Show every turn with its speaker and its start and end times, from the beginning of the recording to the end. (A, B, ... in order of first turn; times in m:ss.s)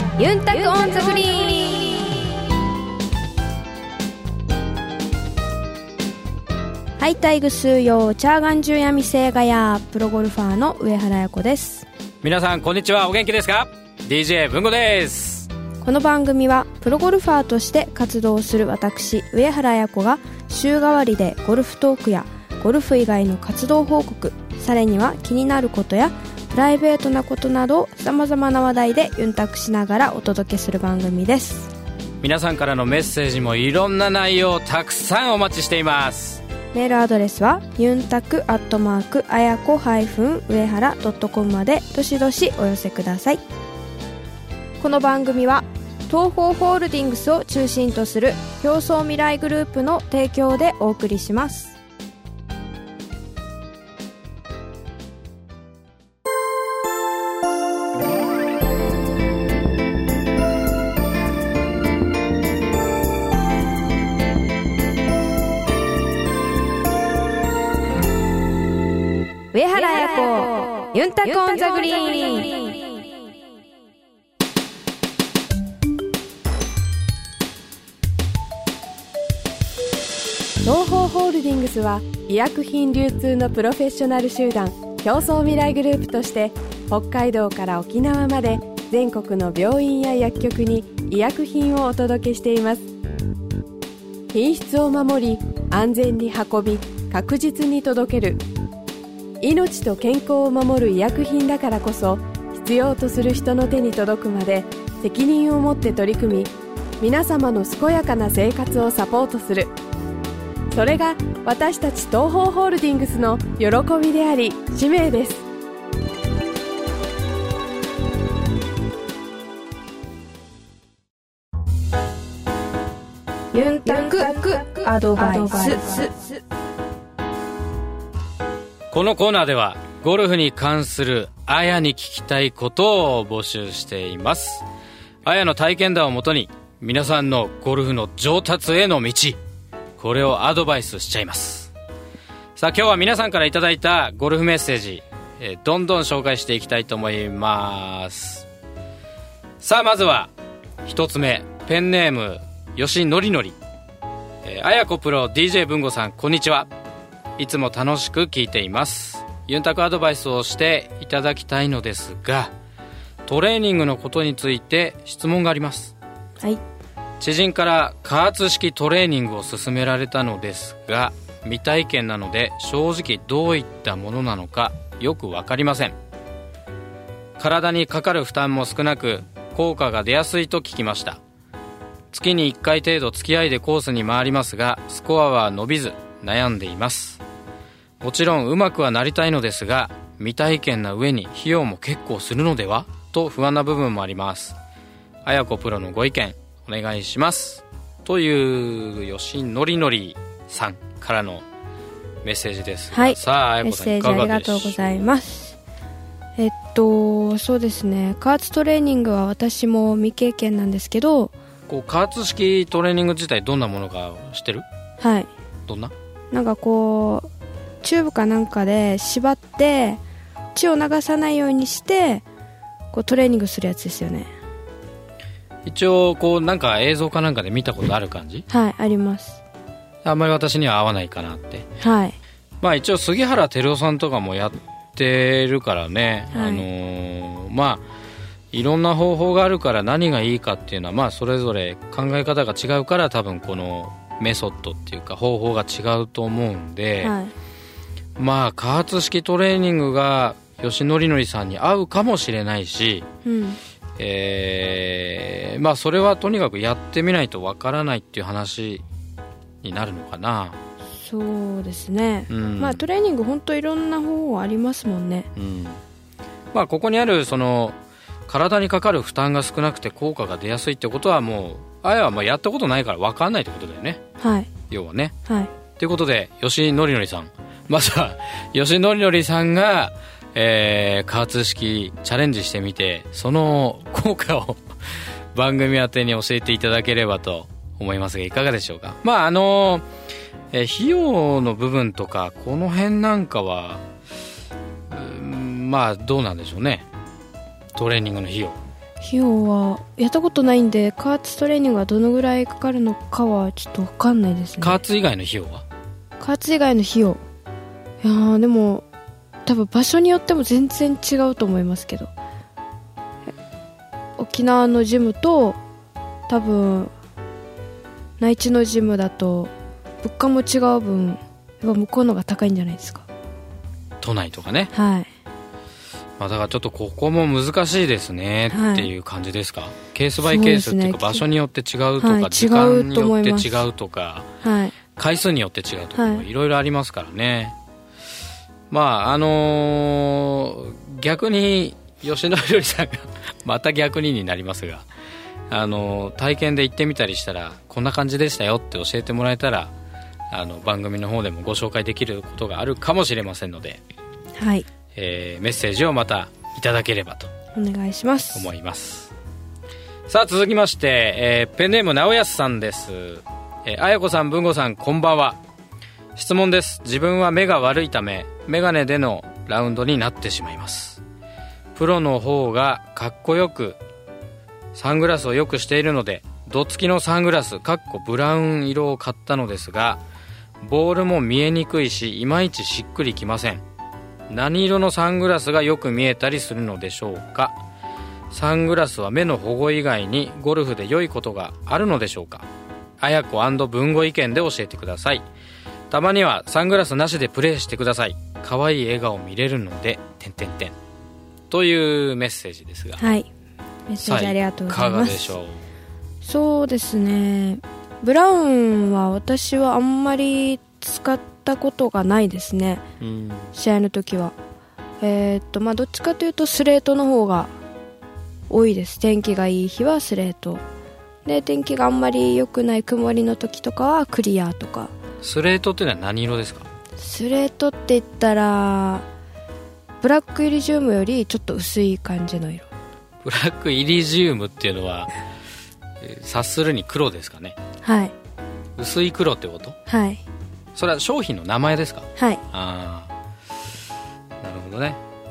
0:00.2-0:02.1 A
0:07.0-0:11.8 A
0:12.2-0:15.5 B
0:15.8-0:31.7 A
0:32.2-0:36.4 B
0:36.7-0:43.4 A
0:44.8-0:51.8 A
1:09.5-1:12.7 A
1:20.6-1:32.9 C
1:34.3-1:38.4 C
1:39.4-1:49.7 C
1:50.7-1:55.4 C
2:03.5-2:06.3 A
2:08.9-2:14.6 B
2:15.2-2:19.4 B
2:20.0-2:21.7 B
2:22.6-2:28.5 B
2:29.6-2:30.3 B
2:30.8-2:33.6 B
2:34.4-2:36.7 B
2:37.4-2:42.5 B
2:43.2-2:45.9 B
2:47.2-2:56.0 B
2:57.4-3:01.2 B
3:02.1-3:07.2 B
3:08.0-3:14.6 B
3:15.2-3:21.4 B
3:22.2-3:25.0 B
3:22.9-3:25.6 A
3:26.4-3:31.3 A
3:31.7-3:34.6 B
3:35.0-3:35.3 A
3:35.6-3:35.9 B
3:36.3-3:37.3 A
3:37.8-3:40.0 A
3:40.5-3:42.2 A
3:42.9-3:44.3 A
3:45.6-3:48.4 B
3:48.5-3:49.4 A
3:50.0-3:51.7 B
3:51.8-3:52.2 A
3:52.6-3:57.8 B
3:56.3-3:56.6 A
3:58.5-4:07.2 B
4:07.0-4:07.3 A
4:08.2-4:13.0 B
4:13.2-4:13.6 A
4:14.0-4:18.8 B
4:19.6-4:20.6 B
4:20.9-4:25.3 A
4:22.3-4:22.8 B
4:25.4-4:25.8 B
4:26.5-4:27.8 B
4:28.3-4:34.0 B
4:34.2-4:34.5 A
4:34.7-4:35.1 B
4:35.8-4:49.8 B
4:50.5-4:53.8 B
4:54.9-4:56.8 B
4:57.7-4:58.6 B
4:59.0-5:04.8 A
5:04.6-5:05.6 B
5:06.2-5:07.2 A
5:08.0-5:08.8 A
5:09.4-5:12.1 A
5:14.2-5:15.6 A
5:16.3-5:16.9 A
5:18.2-5:23.0 A
5:24.0-5:24.7 B
5:24.7-5:25.1 A
5:26.2-5:34.3 B
5:28.5-5:28.9 A
5:30.2-5:31.2 A
5:32.0-5:33.5 A
5:34.4-5:34.7 A
5:34.9-5:37.6 B
5:35.9-5:36.2 A
5:38.7-5:44.8 B
5:45.5-5:49.7 B
5:50.3-5:53.8 B
5:54.4-5:54.6 A
5:54.9-5:57.3 B
5:57.5-5:58.5 A
5:58.3-5:59.1 B
6:00.1-6:05.4 B
6:06.1-6:11.0 B
6:11.7-6:13.8 B
6:14.7-6:20.0 B
6:20.6-6:23.6 B
6:24.3-6:27.6 B
6:28.3-6:32.4 B
6:33.0-6:35.2 B
6:35.9-6:40.8 B
6:41.5-6:43.1 B
6:43.0-6:43.3 A
6:43.9-6:45.3 A
6:44.0-6:45.6 B
6:46.2-6:52.8 A
6:53.0-6:53.5 B
6:53.5-6:54.3 A
6:55.0-6:57.5 A
6:58.5-7:00.6 A
7:01.2-7:04.9 A
7:05.2-7:06.7 B
7:07.0-7:09.0 A
7:10.0-7:12.7 A
7:13.2-7:15.1 B
7:16.0-7:17.6 B
7:17.8-7:18.1 A
7:18.8-7:19.8 B
7:19.9-7:20.2 A
7:20.7-7:23.1 B
7:22.2-7:22.4 A
7:24.4-7:25.0 B